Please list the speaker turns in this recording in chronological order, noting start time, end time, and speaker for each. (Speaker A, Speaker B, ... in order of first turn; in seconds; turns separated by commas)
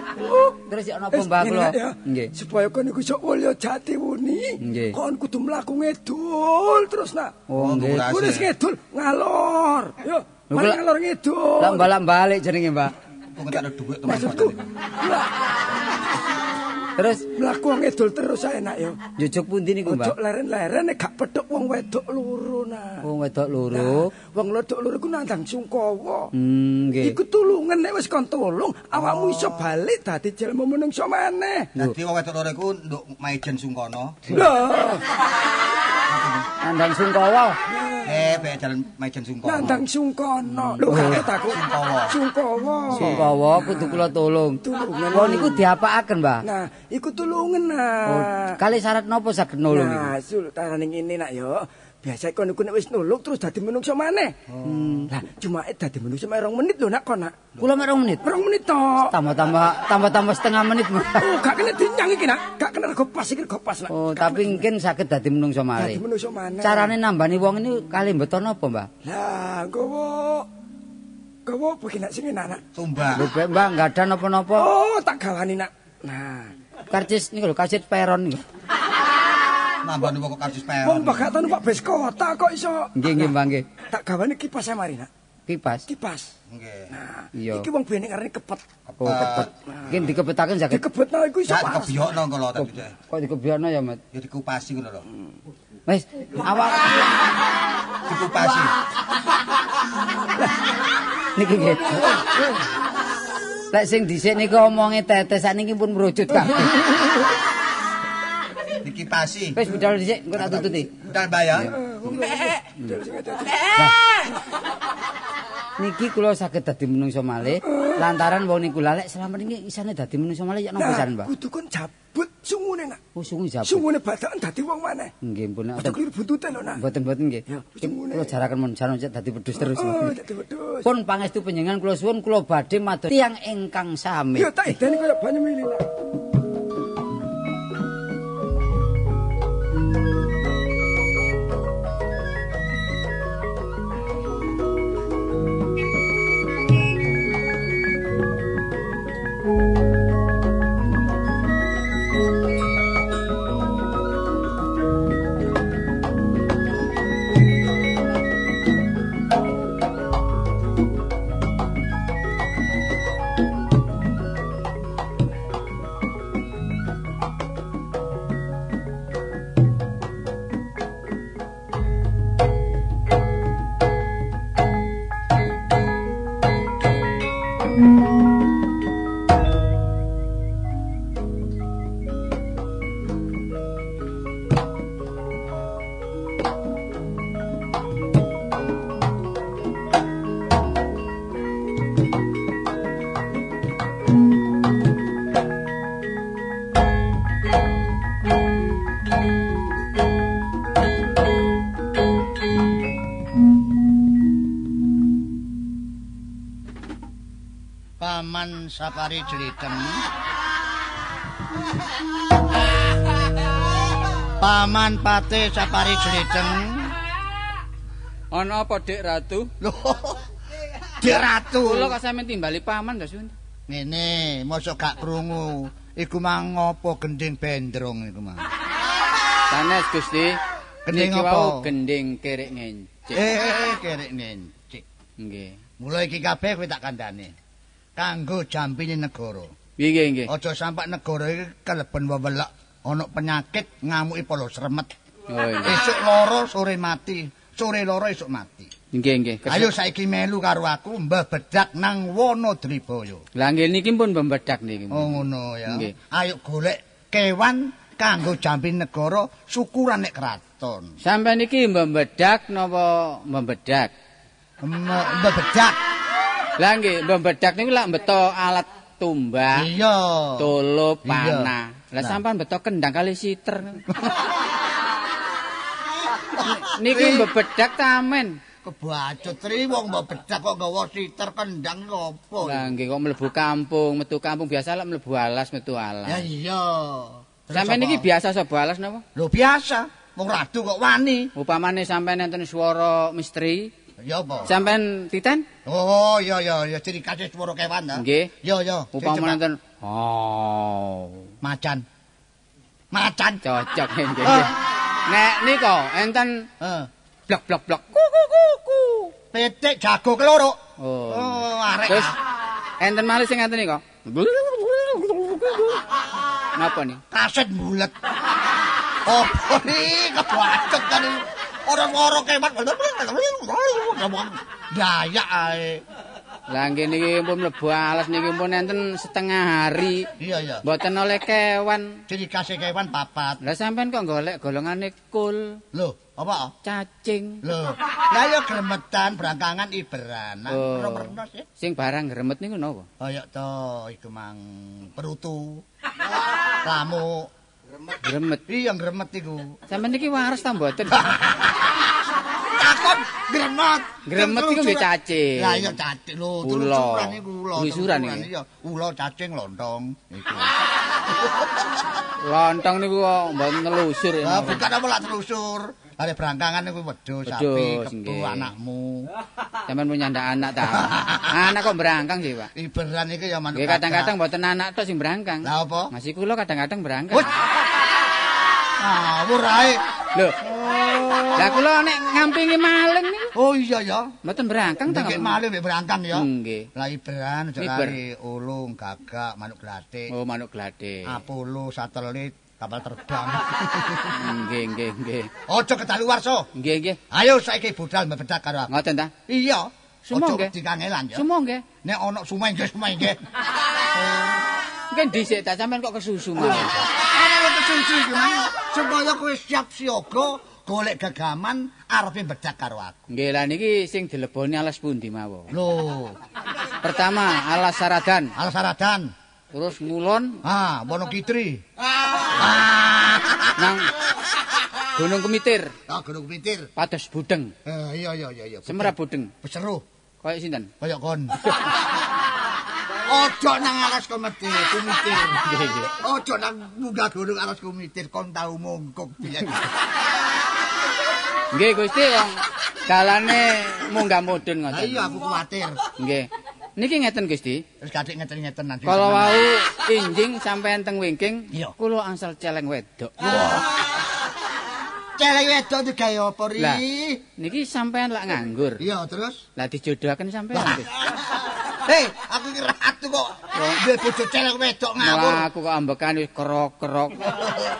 Speaker A: 0.1-0.6, Speaker B: 0.7-2.3, Speaker A: 1.1-7.4, Speaker B: 4.6-5.0, Speaker B: 7.5-8.1, Speaker C: 7.6-8.5, Speaker A: 8.0-11.9, Speaker B: 10.5-10.8, Speaker B: 11.6-12.9, Speaker C: 13.3-14.7, Speaker A: 14.1-15.3, Speaker B: 17.0-17.2, Speaker A: 17.3-19.0, Speaker B: 19.2-20.1, Speaker A: 19.9-23.0, Speaker B: 23.0-24.1, Speaker A: 23.7-26.3, Speaker B: 26.3-27.2, Speaker A: 27.0-31.7, Speaker C: 29.0-29.6, Speaker C: 31.8-34.4, Speaker A: 34.3-35.0, Speaker C: 36.1-36.5, Speaker B: 36.6-37.6, Speaker A: 37.7-38.3, Speaker C: 38.0-39.8, Speaker A: 39.4-44.0, Speaker B: 40.5-41.2, Speaker C: 40.9-42.2, Speaker C: 42.9-43.2, Speaker B: 42.9-46.5, Speaker A: 44.6-45.6, Speaker A: 46.4-48.6, Speaker B: 48.1-50.1, Speaker A: 49.7-54.4, Speaker C: 54.5-54.8, Speaker B: 54.6-55.1, Speaker A: 55.1-57.4, Speaker B: 57.6-58.2, Speaker A: 58.2-59.1, Speaker B: 59.1-61.3, Speaker A: 61.2-64.6, Speaker B: 63.9-66.0, Speaker A: 65.8-66.9, Speaker B: 66.6-68.9, Speaker A: 69.0-70.5, Speaker A: 71.5-72.6, Speaker C: 72.7-73.3, Speaker B: 73.1-74.7, Speaker A: 74.6-76.5, Speaker B: 76.9-78.4, Speaker C: 79.8-81.3, Speaker A: 80.8-82.9, Speaker B: 83.0-83.7, Speaker A: 83.8-85.1, Speaker B: 85.5-85.8, Speaker A: 85.9-86.3, Speaker C: 86.5-86.9, Speaker A: 86.9-88.6, Speaker B: 87.3-87.7, Speaker C: 88.9-90.0, Speaker B: 89.0-90.8, Speaker A: 90.7-92.0, Speaker C: 91.5-92.9, Speaker B: 92.6-94.0, Speaker C: 94.1-95.0, Speaker B: 95.9-97.0, Speaker C: 98.1-98.7, Speaker B: 101.3-102.2, Speaker B: 103.7-106.9, Speaker C: 108.8-109.7, Speaker B: 109.5-110.9, Speaker C: 110.3-111.8, Speaker A: 111.7-113.7, Speaker B: 115.8-121.3, Speaker A: 120.8-123.0, Speaker B: 123.1-123.8, Speaker A: 123.7-125.1, Speaker B: 125.2-126.0, Speaker A: 125.8-126.8, Speaker B: 126.8-130.1, Speaker A: 127.5-128.3, Speaker A: 129.6-130.9, Speaker B: 130.8-134.7, Speaker A: 134.3-135.8, Speaker D: 208.0-210.0, Speaker D: 214.4-216.9, Speaker E: 218.3-219.5, Speaker D: 219.6-220.2, Speaker D: 221.0-221.9, Speaker E: 221.1-223.3, Speaker D: 223.7-228.4, Speaker E: 229.5-230.4, Speaker D: 230.8-231.7, Speaker E: 230.9-233.3, Speaker D: 233.1-234.8, Speaker E: 235.2-235.6, Speaker D: 235.8-237.3, Speaker D: 238.0-239.5, Speaker E: 239.8-240.3, Speaker D: 240.3-244.9, Speaker E: 245.3-245.8, Speaker D: 245.6-248.7, Speaker E: 248.9-249.7, Speaker D: 249.5-253.2, Speaker E: 253.3-255.9, Speaker D: 254.9-260.9, Speaker E: 261.0-263.9, Speaker D: 264.6-265.8, Speaker E: 266.6-269.7, Speaker D: 269.5-270.5, Speaker E: 270.4-273.8, Speaker D: 271.0-272.2, Speaker D: 276.4-277.3, Speaker E: 276.4-278.4, Speaker D: 278.6-282.7, Speaker E: 282.4-286.3, Speaker D: 286.1-288.1, Speaker E: 287.5-289.0, Speaker D: 289.1-291.3, Speaker E: 291.4-293.7, Speaker D: 294.0-294.5, Speaker E: 294.4-295.4, Speaker D: 295.6-299.4, Speaker E: 297.9-298.3, Speaker E: 298.9-301.2, Speaker D: 301.4-301.8, Speaker D: 302.9-303.4, Speaker E: 303.4-306.5, Speaker D: 304.2-304.5, Speaker D: 306.6-306.9, Speaker E: 307.3-309.1, Speaker D: 309.2-312.1, Speaker E: 310.8-312.1, Speaker E: 312.8-315.8, Speaker E: 316.6-317.0, Speaker D: 317.1-317.9, Speaker D: 319.1-325.8, Speaker E: 326.5-330.1, Speaker D: 330.2-330.6, Speaker E: 330.6-332.0, Speaker D: 332.1-333.4, Speaker E: 333.4-335.6, Speaker D: 335.7-336.5, Speaker E: 336.6-337.4, Speaker D: 337.4-341.4, Speaker E: 340.5-342.9, Speaker D: 343.0-345.6, Speaker D: 346.6-347.3, Speaker E: 348.0-348.4, Speaker D: 348.5-349.6, Speaker E: 349.7-351.1, Speaker D: 352.6-360.5, Speaker E: 354.1-355.8, Speaker E: 356.4-358.3, Speaker E: 362.2-364.6, Speaker D: 364.2-369.1, Speaker E: 367.2-368.5, Speaker E: 369.7-372.5, Speaker D: 370.6-371.5, Speaker D: 372.5-374.1, Speaker E: 373.5-377.3, Speaker D: 375.4-375.9, Speaker D: 378.8-379.8, Speaker D: 380.4-381.6, Speaker E: 381.3-383.3, Speaker D: 383.3-384.1, Speaker E: 384.2-385.4, Speaker D: 384.9-390.1, Speaker E: 386.1-386.7, Speaker E: 387.6-387.9, Speaker E: 390.1-391.2, Speaker D: 391.1-394.2, Speaker E: 394.1-395.3, Speaker D: 395.5-396.5, Speaker E: 396.6-397.0, Speaker D: 397.1-401.2, Speaker E: 398.7-399.1, Speaker E: 400.1-400.5, Speaker E: 401.1-401.6, Speaker D: 401.8-403.2, Speaker D: 403.9-404.4, Speaker E: 404.9-406.8, Speaker D: 406.4-413.1, Speaker E: 413.1-415.5, Speaker D: 415.5-416.1, Speaker E: 416.8-418.3, Speaker D: 418.4-419.1, Speaker E: 419.5-420.4, Speaker D: 420.4-421.6, Speaker D: 422.3-423.7, Speaker E: 423.6-423.9, Speaker E: 424.9-425.7, Speaker D: 425.9-426.7, Speaker E: 426.8-427.5, Speaker D: 427.6-429.8, Speaker E: 428.6-429.3, Speaker E: 430.2-430.7, Speaker D: 430.8-431.4, Speaker D: 433.1-439.6, Speaker E: 435.4-435.9, Speaker E: 441.5-445.2, Speaker D: 444.7-445.8, Speaker E: 446.0-447.6, Speaker D: 447.8-449.5, Speaker E: 448.8-453.1, Speaker D: 453.2-453.8, Speaker D: 455.2-457.2, Speaker E: 456.6-456.8, Speaker E: 457.4-458.8, Speaker D: 458.8-459.4, Speaker E: 459.6-460.9, Speaker D: 460.5-460.8, Speaker D: 461.9-465.5, Speaker E: 465.0-467.2, Speaker D: 467.3-467.6